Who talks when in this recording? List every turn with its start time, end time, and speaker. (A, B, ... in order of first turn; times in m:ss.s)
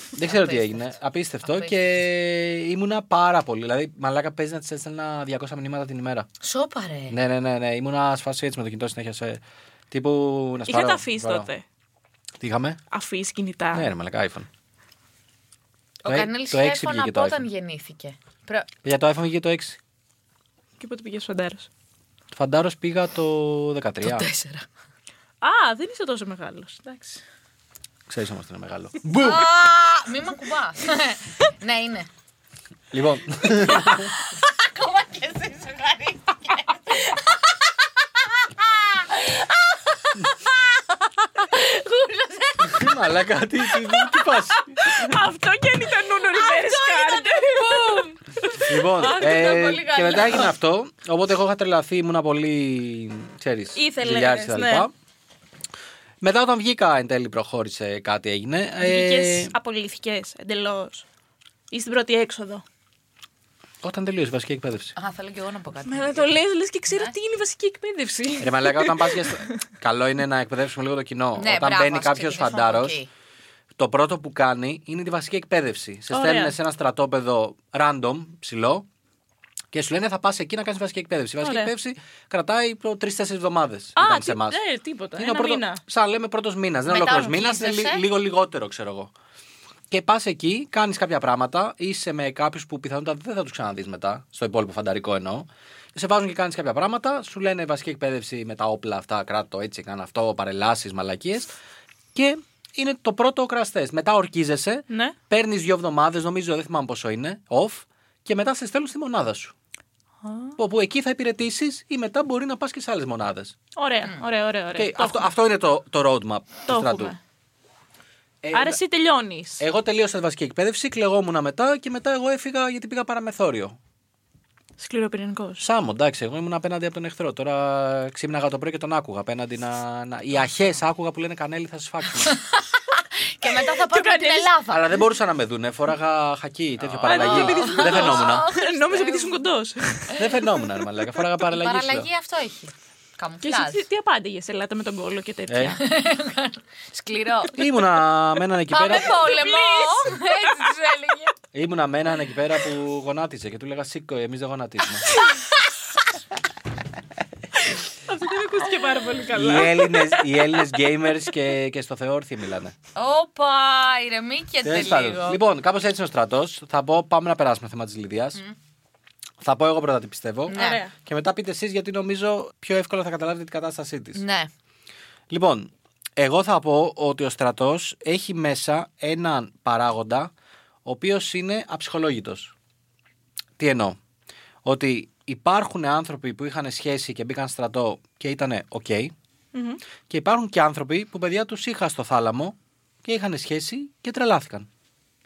0:00.2-0:06.3 A
0:00.2-0:01.7 B
0:06.4-0:07.2 B
0:07.1-0:11.5 A
0:10.7-0:11.6 C
0:12.4-0:12.8 A
0:12.9-0:13.9 C
0:13.7-0:14.5 A
0:16.0-0:18.7 B
0:16.0-0:17.4 A
0:18.8-0:19.8 A
0:20.8-0:21.7 C
0:22.3-0:24.3 A
0:24.0-0:24.6 B
0:25.4-0:27.2 C
0:28.1-0:29.4 A
0:29.1-0:32.1 B
0:32.9-0:34.1 A
0:33.5-0:37.4 B
0:38.4-0:40.5 B
0:41.4-0:42.9 B
0:42.6-0:45.1 A
0:44.7-0:50.5 C
0:46.2-0:48.1 B
0:48.6-0:54.9 A
0:53.7-0:54.9 C
0:56.2-0:59.5 A
0:58.8-1:01.0 C
1:01.7-1:02.6 C
1:03.8-1:04.9 A
1:05.0-1:07.1 B
1:05.8-1:09.5 C
1:08.4-1:13.0 A
1:11.4-1:13.1 B
1:13.8-1:18.9 A
1:16.1-1:16.5 C
1:19.7-1:24.6 A
1:21.4-1:21.7 C
1:24.0-1:25.8 C
1:25.2-1:29.1 A
1:26.9-1:28.0 B
1:29.9-1:41.5 A
1:42.1-1:49.5 A
1:44.9-1:45.2 C
1:50.2-1:50.6 C
1:50.6-1:53.6 A
1:53.8-1:55.3 C
1:54.7-1:57.1 A
1:56.7-1:57.2 C
1:58.4-1:58.8 A
1:58.5-1:59.6 C
1:59.6-2:03.8 A
2:04.8-2:05.6 C
2:05.6-2:12.4 A
2:12.3-2:15.0 B
2:13.5-2:14.5 C
2:14.7-2:18.5 A
2:17.0-2:19.4 B
2:17.0-2:20.4 C
2:20.1-2:22.1 A
2:21.4-2:23.8 B
2:23.4-2:25.8 C
2:25.5-2:25.8 A
2:25.8-2:27.6 B
2:27.5-2:29.2 A
2:28.7-2:31.3 B
2:29.0-2:30.5 C
2:31.5-2:35.1 A
2:37.9-2:40.6 C
2:39.3-2:42.7 A
2:42.9-2:45.4 B
2:44.6-2:48.4 A
2:49.4-2:54.2 A
2:50.5-2:50.9 C
2:50.5-2:50.8 B
2:54.1-2:54.5 B
2:55.3-3:00.3 A
3:00.8-3:02.5 A
3:03.6-3:04.0 A
3:04.6-3:09.1 A
3:09.5-3:09.8 C
3:10.1-3:14.7 A